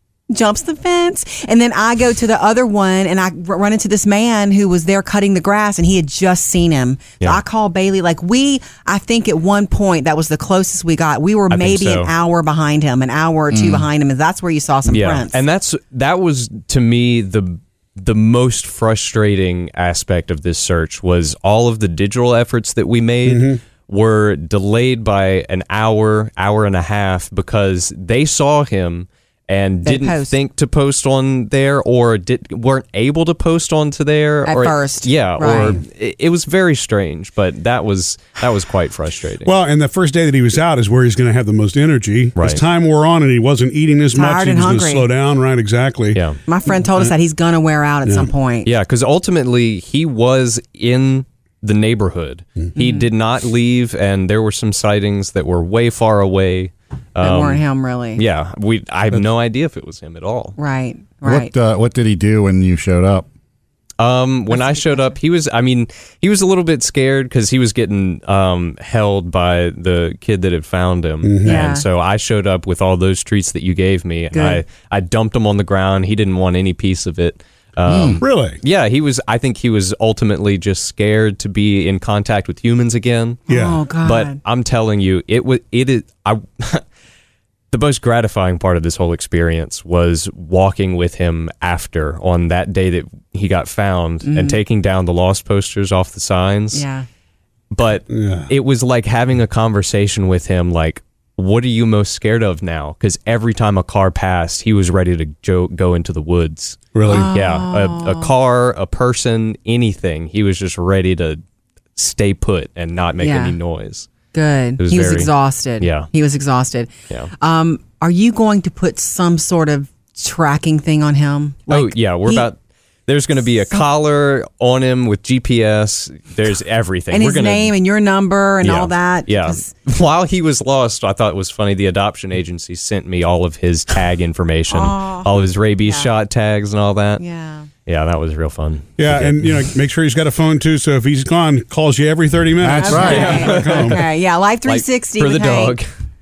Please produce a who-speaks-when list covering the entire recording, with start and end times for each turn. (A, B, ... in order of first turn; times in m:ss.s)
0:00.3-0:15.4 A
0:11.5-0:12.1 B
0:13.5-0:13.9 C
0:14.8-0:39.5 B
0:23.2-0:23.6 D
0:29.8-0:30.3 A
0:34.4-0:35.8 A
0:39.4-0:46.2 D
0:42.4-0:42.6 B
0:44.1-0:45.1 A
0:46.1-0:46.4 B
0:46.4-0:48.7 A
0:48.6-0:57.6 B
0:52.8-0:53.0 A
0:57.2-0:58.2 A
0:58.1-1:00.6 B
1:00.6-1:01.5 A
1:01.2-1:03.3 C
1:04.0-1:26.8 B
1:04.5-1:05.2 A
1:11.2-1:11.7 D
1:11.4-1:11.8 A
1:14.3-1:14.6 A
1:17.9-1:18.2 C
1:18.2-1:18.6 D
1:23.5-1:24.4 A
1:23.5-1:23.8 D
1:27.7-1:36.8 B
1:34.2-1:34.6 A
1:36.7-1:37.0 A
1:37.7-1:51.4 B
1:38.1-1:38.5 D
1:46.9-1:47.3 D
1:47.1-1:48.3 A
1:52.0-1:54.1 B
1:53.2-1:53.6 A
1:54.3-2:02.5 A
1:54.8-1:56.1 B
2:01.7-2:07.7 B
2:07.1-2:09.7 A
2:08.6-2:17.2 B
2:14.7-2:16.1 A
2:17.2-2:17.7 A
2:17.8-2:19.7 B
2:19.0-2:24.0 D
2:22.6-2:23.5 C
2:22.8-2:25.8 A
2:23.0-2:24.0 B
2:24.6-2:25.8 B